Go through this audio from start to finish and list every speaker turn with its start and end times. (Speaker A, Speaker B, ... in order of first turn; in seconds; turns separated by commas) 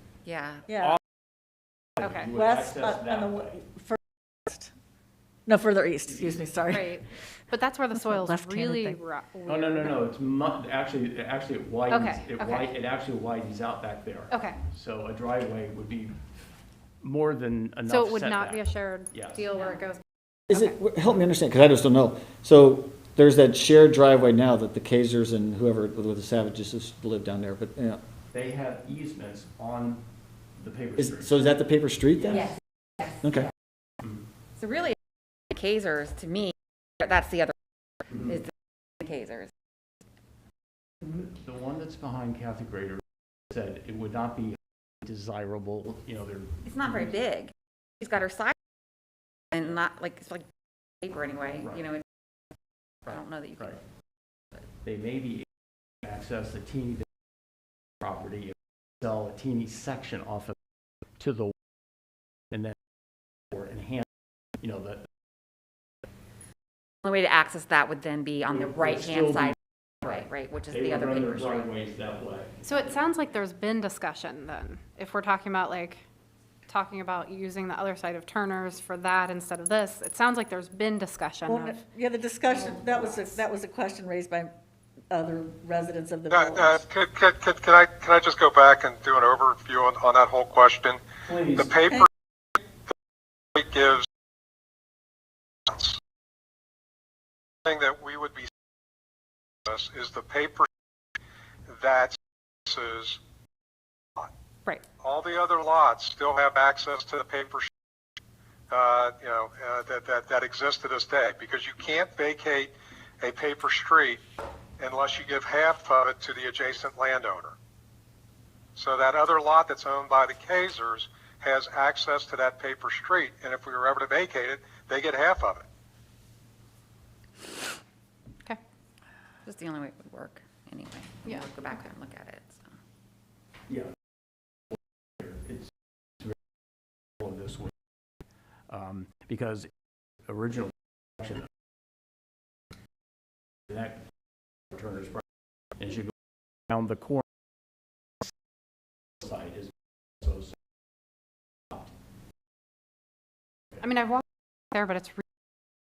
Speaker A: 0.2-0.6, Speaker B: 0.7-1.0, Speaker C: 2.0-3.5, Speaker D: 2.0-2.2, Speaker B: 2.3-4.7, Speaker B: 5.5-6.9, Speaker D: 6.7-9.9, Speaker B: 8.0-9.0, Speaker C: 9.5-16.2, Speaker D: 11.9-12.7, Speaker D: 14.3-14.6, Speaker C: 17.0-19.4, Speaker D: 17.9-20.8, Speaker A: 19.5-19.8, Speaker E: 20.5-28.0, Speaker C: 28.3-30.0, Speaker C: 30.6-31.4, Speaker E: 31.0-32.5, Speaker E: 33.2-33.5, Speaker A: 34.6-35.0, Speaker A: 35.5-37.5, Speaker C: 38.1-38.4, Speaker A: 38.2-38.5, Speaker A: 39.0-39.5, Speaker C: 41.1-47.1, Speaker A: 46.6-48.5, Speaker A: 49.5-50.5, Speaker A: 51.0-52.0, Speaker C: 51.6-51.9, Speaker A: 53.0-53.7, Speaker C: 54.8-55.5, Speaker C: 56.0-57.0, Speaker C: 58.0-60.5, Speaker C: 61.2-61.5, Speaker C: 63.5-64.0, Speaker C: 64.6-65.0, Speaker A: 67.0-69.5, Speaker C: 68.5-72.9, Speaker A: 70.0-71.7, Speaker D: 72.6-76.0, Speaker D: 76.7-81.8, Speaker B: 81.5-84.5, Speaker D: 82.6-83.2, Speaker B: 85.1-86.8, Speaker F: 86.3-92.1, Speaker C: 91.2-91.7, Speaker F: 93.5-94.0, Speaker F: 95.7-96.0, Speaker F: 97.7-98.5, Speaker F: 99.7-100.7, Speaker F: 101.7-103.2, Speaker F: 105.0-107.7, Speaker F: 108.7-114.2, Speaker F: 114.8-117.5, Speaker F: 118.8-125.6, Speaker A: 129.4-132.7, Speaker D: 131.2-131.8, Speaker C: 135.2-135.7, Speaker C: 137.2-137.7, Speaker C: 138.7-139.7, Speaker C: 140.2-141.5, Speaker C: 143.7-144.0, Speaker C: 144.7-145.2, Speaker C: 145.8-146.1, Speaker C: 146.7-147.2, Speaker C: 149.2-149.7, Speaker C: 150.2-150.5, Speaker D: 153.8-155.2